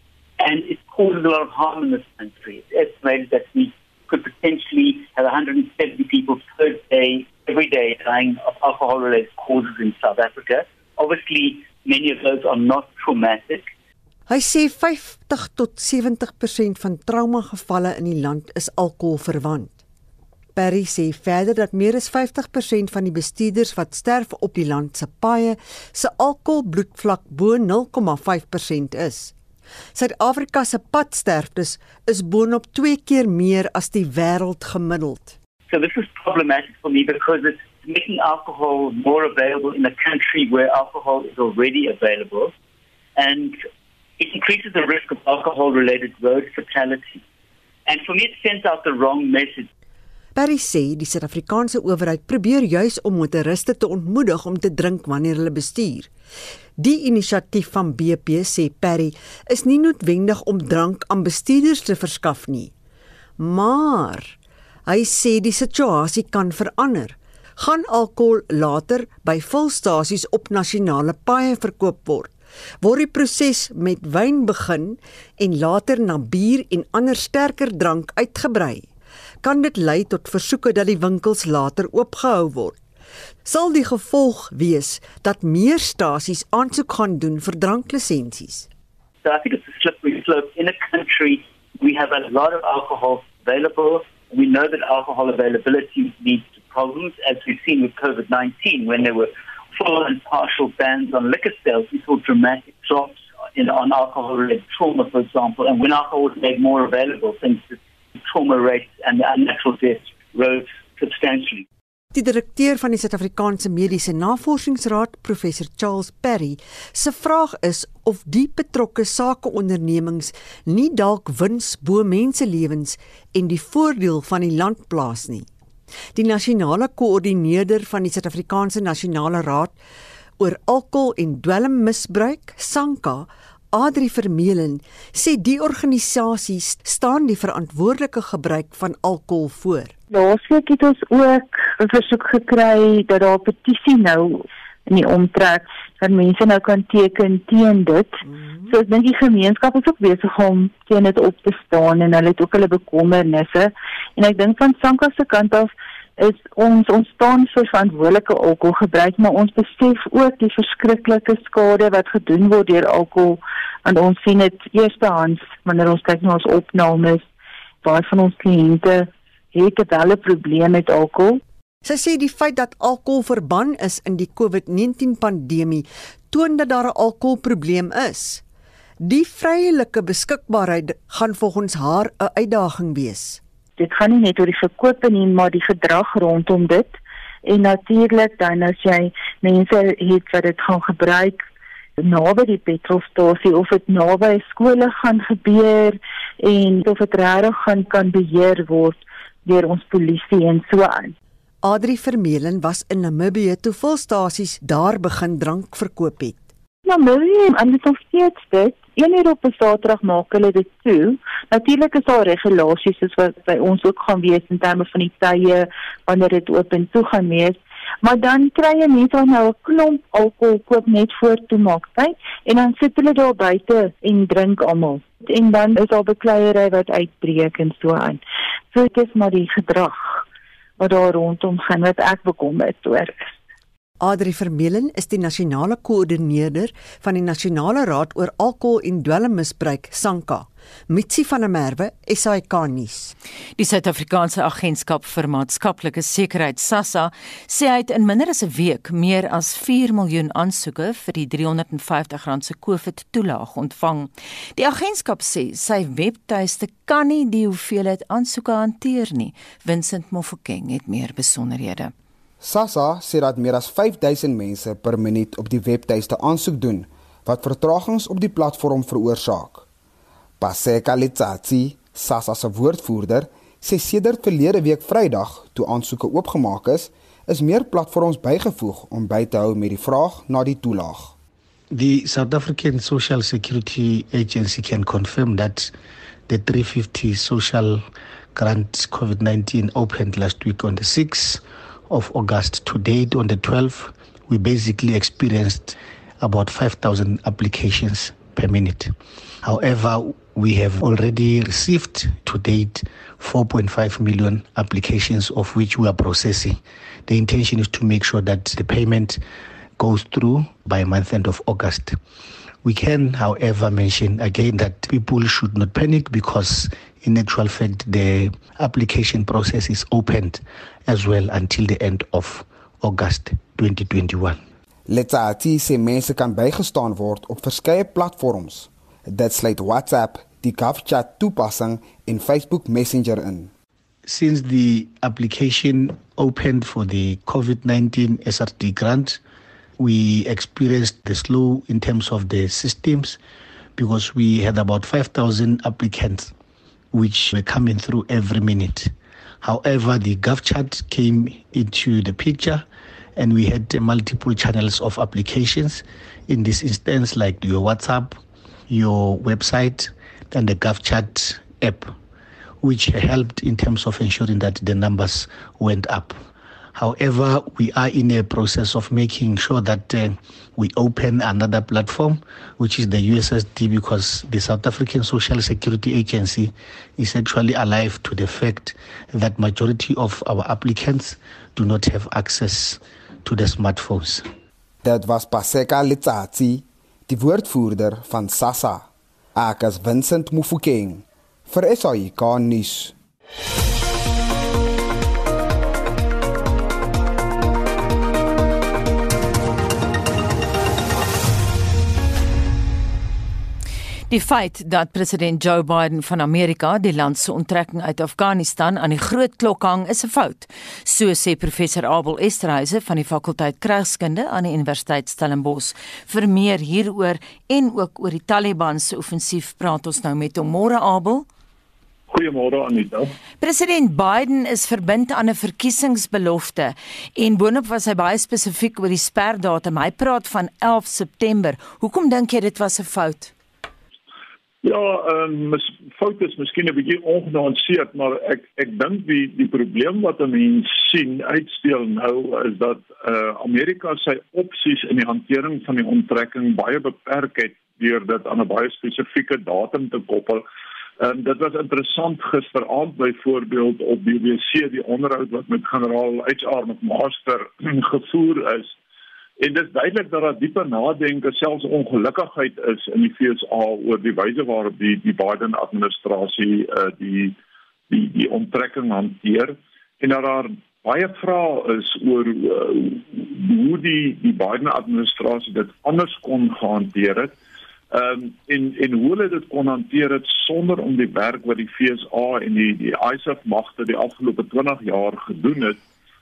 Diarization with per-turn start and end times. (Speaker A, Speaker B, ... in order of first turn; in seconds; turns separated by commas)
Speaker A: 0.4-13.7, Speaker B: 14.3-19.8, Speaker B: 20.6-29.3, Speaker B: 29.9-35.4, Speaker A: 35.7-42.5, Speaker A: 43.2-43.6, Speaker A: 44.2-47.2, Speaker A: 47.9-49.7, Speaker B: 50.4-56.1, Speaker B: 56.8-62.7, Speaker B: 63.4-64.4, Speaker B: 64.9-78.9, Speaker B: 79.4-82.8, Speaker B: 83.5-88.7, Speaker A: 89.2-111.7, Speaker B: 112.1-125.5, Speaker B: 126.2-129.8, Speaker B: 130.4-139.9, Speaker C: 140.1-167.3, Speaker C: 167.8-171.4, Speaker B: 171.8-178.4, Speaker B: 179.0-183.4, Speaker C: 183.8-191.4, Speaker C: 192.0-201.1, Speaker B: 201.6-206.5, Speaker C: 206.8-228.2, Speaker C: 228.7-230.2, Speaker C: 230.8-233.2, Speaker B: 234.0-243.1, Speaker D: 243.6-261.9, Speaker E: 262.4-269.7, Speaker E: 270.4-281.1, Speaker F: 281.7-285.7, Speaker F: 286.3-287.8, Speaker F: 288.4-309.2, Speaker F: 309.8-312.0, Speaker F: 312.6-324.4, Speaker E: 324.9-333.5, Speaker F: 334.1-339.2, Speaker F: 339.8-343.2, Speaker F: 343.8-346.3, Speaker F: 346.9-352.6, Speaker F: 353.2-361.9, Speaker F: 362.6-366.2, Speaker F: 366.8-384.3, Speaker E: 384.8-392.9, Speaker D: 404.1-421.3, Speaker G: 422.1-423.1, Speaker D: 423.4-433.3, Speaker G: 434.6-450.4, Speaker G: 451.0-458.7, Speaker G: 459.4-467.4, Speaker G: 467.9-477.4, Speaker G: 477.9-485.8